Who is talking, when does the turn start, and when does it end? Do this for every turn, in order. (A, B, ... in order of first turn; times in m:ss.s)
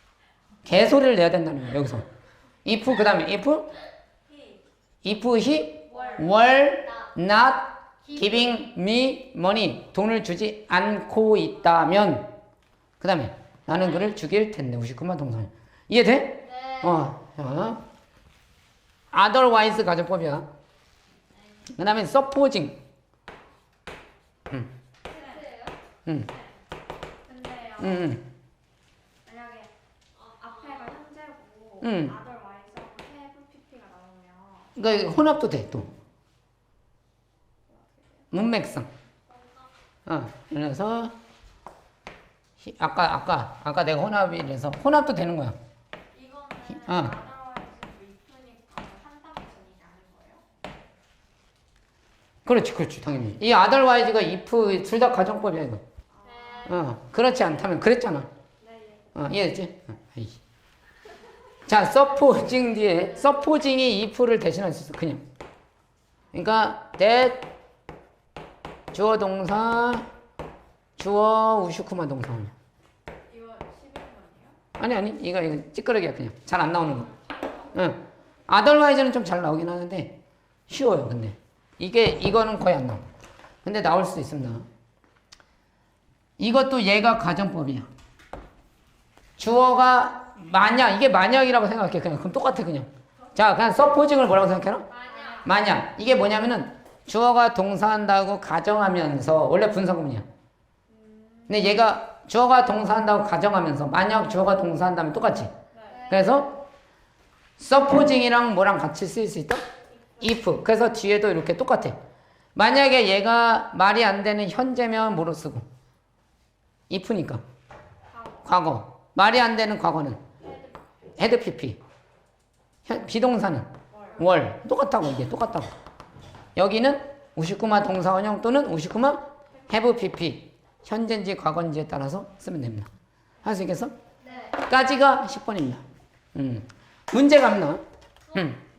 0:00.6-0:02.1 A
0:02.6-0:03.7 A
0:04.2-0:04.6 B
0:05.0-0:12.3 A
0:05.9-0:07.1 C
0:05.9-0:06.2 B
0:08.0-0:08.6 C
0:13.0-0:17.8 A
0:16.4-0:17.1 C
0:19.1-0:20.5 A
0:21.8-0:22.8 A
0:25.1-0:25.8 C
0:25.1-0:25.4 B
0:27.2-0:28.2 B
0:27.8-0:28.2 A
0:29.2-0:29.7 B
0:30.1-0:31.0 C
0:30.3-0:34.8 B
0:31.8-0:32.1 A
0:34.8-0:35.9 A
0:37.7-0:38.3 B
0:38.3-0:38.9 A
0:39.3-0:39.7 C
0:40.0-0:41.2 A
0:42.6-0:45.6 A
0:46.1-0:50.4 B
0:46.7-0:47.2 A
0:52.4-0:55.8 A
0:56.1-0:56.8 B
0:56.2-0:56.9 C
0:56.6-0:58.3 A
0:58.6-0:59.1 B
0:59.1-1:00.4 A
1:01.7-1:05.2 A
1:06.3-1:07.5 A
1:08.9-1:10.1 A
1:11.0-1:12.5 A
1:13.3-1:14.6 B
1:14.8-1:17.1 A
1:17.7-1:23.0 A
1:23.6-1:24.7 A
1:26.4-1:27.9 A
1:29.4-1:34.9 A
1:34.9-1:35.6 C
1:35.0-1:35.5 B
1:35.4-1:40.3 A
1:40.9-1:41.8 B
1:41.5-1:45.5 A
1:45.7-1:46.0 B
1:45.8-1:46.6 C
1:46.1-1:46.5 A
1:47.6-1:49.6 A
1:50.2-1:52.0 A
1:52.6-1:55.6 A
1:56.9-1:57.4 A
1:58.1-1:58.5 B
1:58.4-2:00.2 A
2:01.2-2:01.8 A
2:02.9-2:05.7 A
2:03.9-2:04.3 B
2:06.6-2:12.9 A
2:13.4-2:13.9 A
2:14.2-2:14.6 C
2:14.6-2:17.8 A
2:18.3-2:18.5 C
2:18.3-2:18.6 A